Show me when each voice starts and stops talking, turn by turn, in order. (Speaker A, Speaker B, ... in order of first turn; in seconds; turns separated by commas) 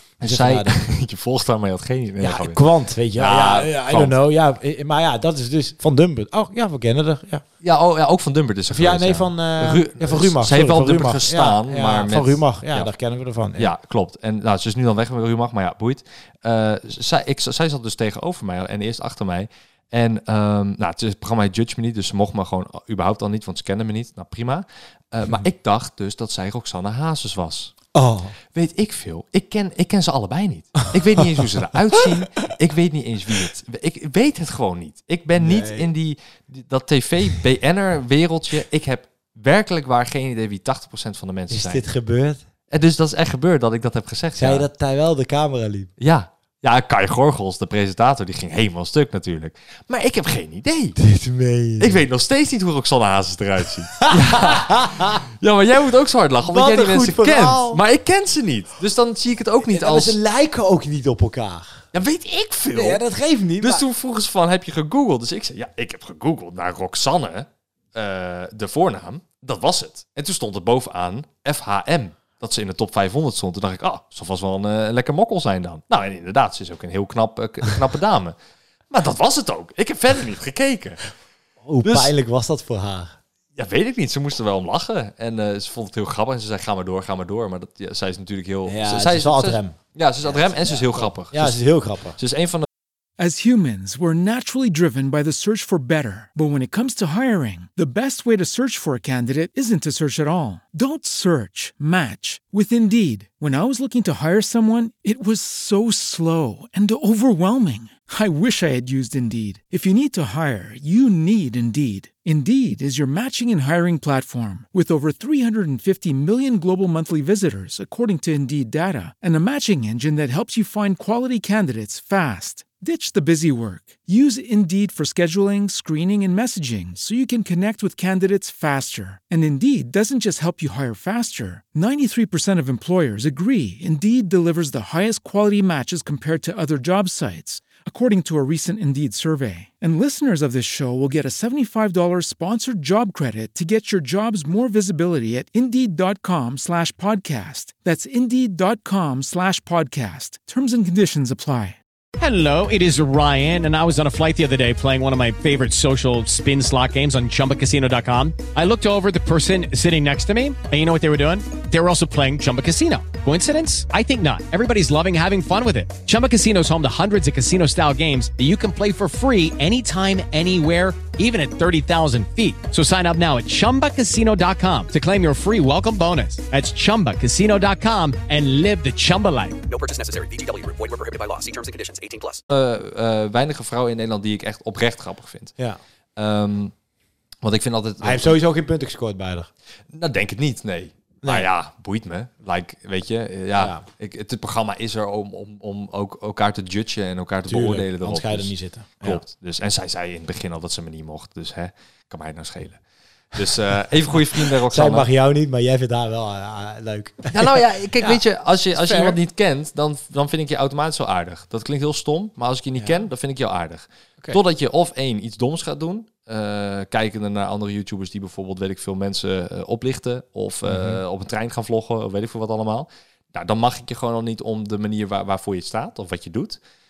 Speaker A: 0.2-4.2, Speaker B: 0.2-0.8, Speaker B: 2.2-7.4, Speaker A: 7.6-12.9, Speaker B: 8.7-13.7, Speaker A: 13.6-27.8, Speaker B: 27.9-28.4, Speaker A: 28.5-41.8, Speaker B: 35.4-35.9, Speaker B: 41.5-42.5, Speaker A: 42.7-44.7, Speaker B: 44.4-45.9, Speaker A: 46.0-51.0, Speaker B: 51.0-52.0, Speaker A: 51.8-60.2, Speaker B: 54.0-55.2, Speaker B: 56.5-57.8, Speaker B: 59.6-61.9, Speaker A: 61.9-63.0, Speaker B: 62.7-63.9, Speaker A: 63.6-78.3, Speaker A: 78.9-81.1, Speaker B: 81.7-83.2, Speaker A: 81.8-82.1, Speaker A: 83.6-91.6, Speaker B: 88.7-92.2, Speaker A: 92.2-92.7, Speaker C: 93.2-151.8, Speaker D: 152.2-179.6, Speaker E: 179.7-182.4, Speaker A: 182.5-185.5, Speaker A: 186.2-186.7, Speaker A: 187.4-188.4, Speaker B: 188.0-189.5, Speaker A: 189.9-202.8, Speaker B: 191.2-191.5, Speaker B: 193.6-193.8, Speaker B: 197.5-199.2, Speaker A: 203.3-205.1, Speaker B: 204.7-208.2, Speaker A: 207.3-226.6, Speaker B: 208.7-209.2, Speaker B: 220.7-221.0